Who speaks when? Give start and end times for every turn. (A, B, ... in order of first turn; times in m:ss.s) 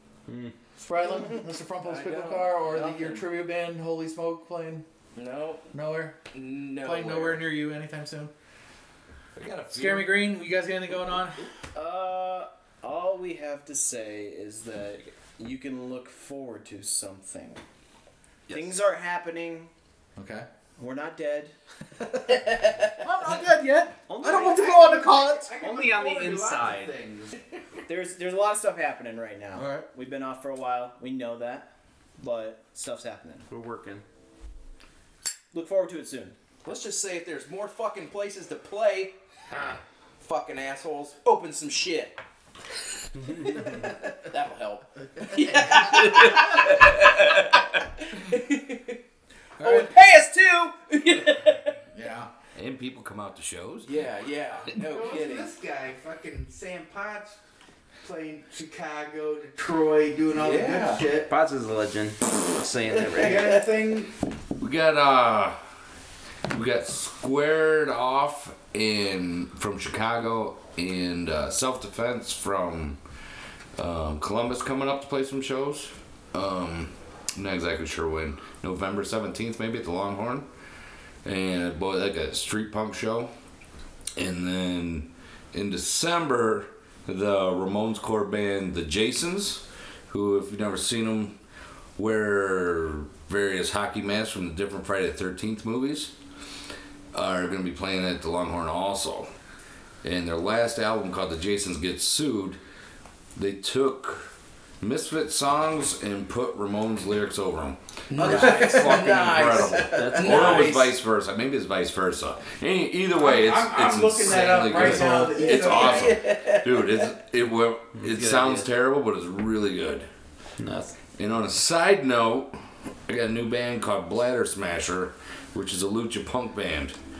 0:00.3-0:00.5 A
0:00.8-0:04.8 B
0:01.1-0:01.4 C
0:01.8-0:02.6 D
0:02.6-0:03.2 C
0:05.1-0:05.6 D
0:05.7-0:06.2 B
0:06.3-0:07.5 D
0:06.8-0:08.3 B
0:09.4-0:10.2 E
0:09.7-0:11.4 B
0:11.7-0:17.6 C
0:18.5-0:18.8 A
0:18.5-0:19.7 C
0:20.2-0:20.5 B
0:20.8-0:21.6 C
0:23.0-0:25.5 B
0:24.1-0:25.0 C
0:24.3-0:24.7 A
0:25.2-0:27.4 F
0:25.6-0:26.9 A
0:27.9-0:31.7 C
0:29.5-0:29.9 B
0:32.2-0:33.4 C
0:33.5-0:34.0 A
0:35.5-0:36.4 C
0:36.6-0:39.1 D
0:40.2-0:42.2 D
0:43.4-0:43.8 A
0:43.7-0:47.4 D
0:49.6-0:49.9 B
0:49.7-0:50.4 C
0:50.0-0:50.9 D
0:51.9-0:52.3 B
0:52.5-0:53.9 E
0:53.8-0:55.5 D
0:54.7-0:57.4 F
0:58.0-1:01.3 F
1:00.3-1:01.0 D
1:01.3-1:03.6 A
1:03.0-1:04.1 F
1:03.2-1:03.6 D
1:04.6-1:05.6 E
1:06.5-1:13.0 E
1:13.8-1:20.4 E
1:21.2-1:23.3 E
1:24.2-1:31.3 E
1:32.0-1:36.1 E
1:37.1-1:39.3 E
1:40.0-1:42.6 E
1:43.4-1:44.3 E
1:44.8-2:00.0 E
1:48.1-1:50.9 D
1:49.9-1:50.8 A
1:53.1-1:56.2 F
1:54.7-1:55.4 B
1:55.3-1:57.1 D
1:58.0-1:58.7 A
2:00.6-2:00.9 A
2:01.2-2:02.5 E
2:03.1-2:06.9 E